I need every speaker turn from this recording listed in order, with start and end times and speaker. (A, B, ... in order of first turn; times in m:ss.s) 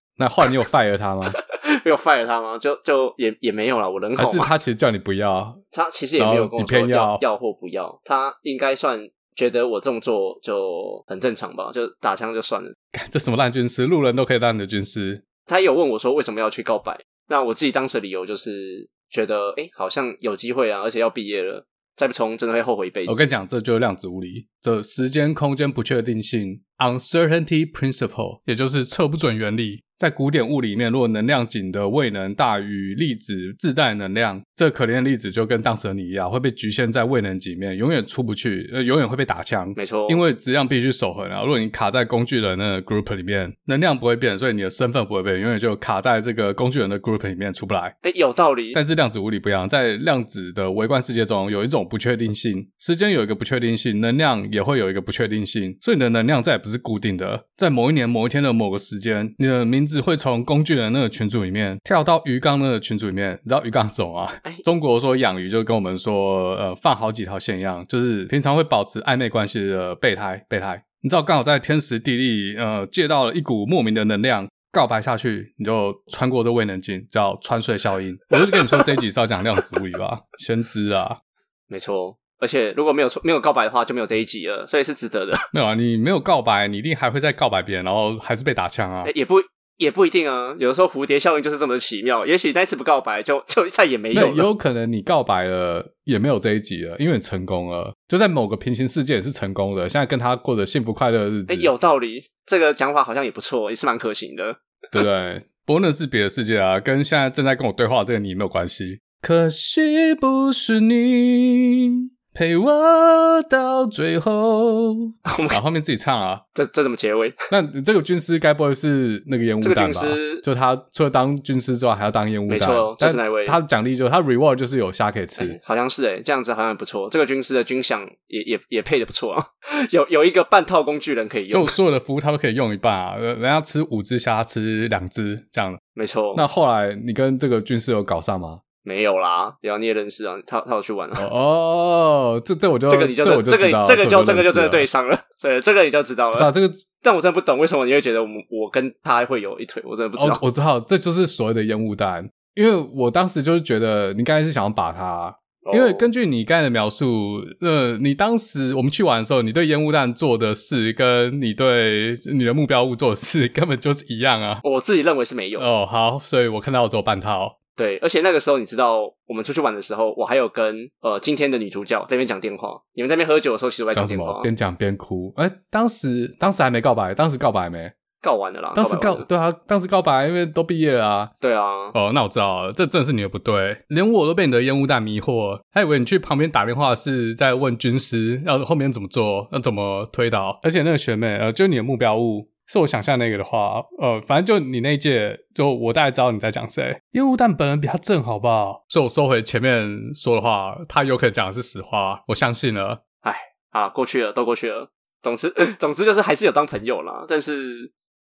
0:00.2-0:01.4 A
0:01.5-0:04.5 B
0:04.2-0:05.6 A
0:05.7-0:12.8 B
0:06.2-0:07.2 A
0:12.9-0:15.2 A
0:15.5-0:23.2 B
0:23.1-0:48.0 A
0:39.8-0:40.2 B
0:48.0-0:48.8 B
0:48.7-1:21.2 A
1:18.5-1:18.9 B
1:21.7-1:25.4 B
1:25.5-1:29.1 A
1:29.0-1:34.5 B
1:34.1-1:41.7 A
1:41.5-1:44.6 B
1:44.9-1:56.4 A
1:55.3-1:55.6 B
1:56.6-1:57.4 B
1:57.5-2:05.6 A
1:59.6-2:00.4 B
2:02.5-2:03.6 B
2:05.4-2:11.8 B
2:11.5-2:15.8 A
2:16.0-2:16.4 B
2:16.4-2:18.6 A
2:18.8-2:21.3 B
2:21.2-2:24.9 A
2:22.9-2:26.5 B
2:26.3-2:26.8 A
2:27.0-2:30.4 B
2:30.2-2:44.6 A
2:35.6-2:36.1 B
2:44.6-2:45.7 B
2:45.6-2:47.6 A
2:47.8-2:54.5 B
2:53.9-2:57.9 A
2:58.2-2:59.3 B
2:58.8-3:01.3 A
3:01.4-3:02.0 B
3:01.9-3:23.0 A
3:23.2-3:27.9 B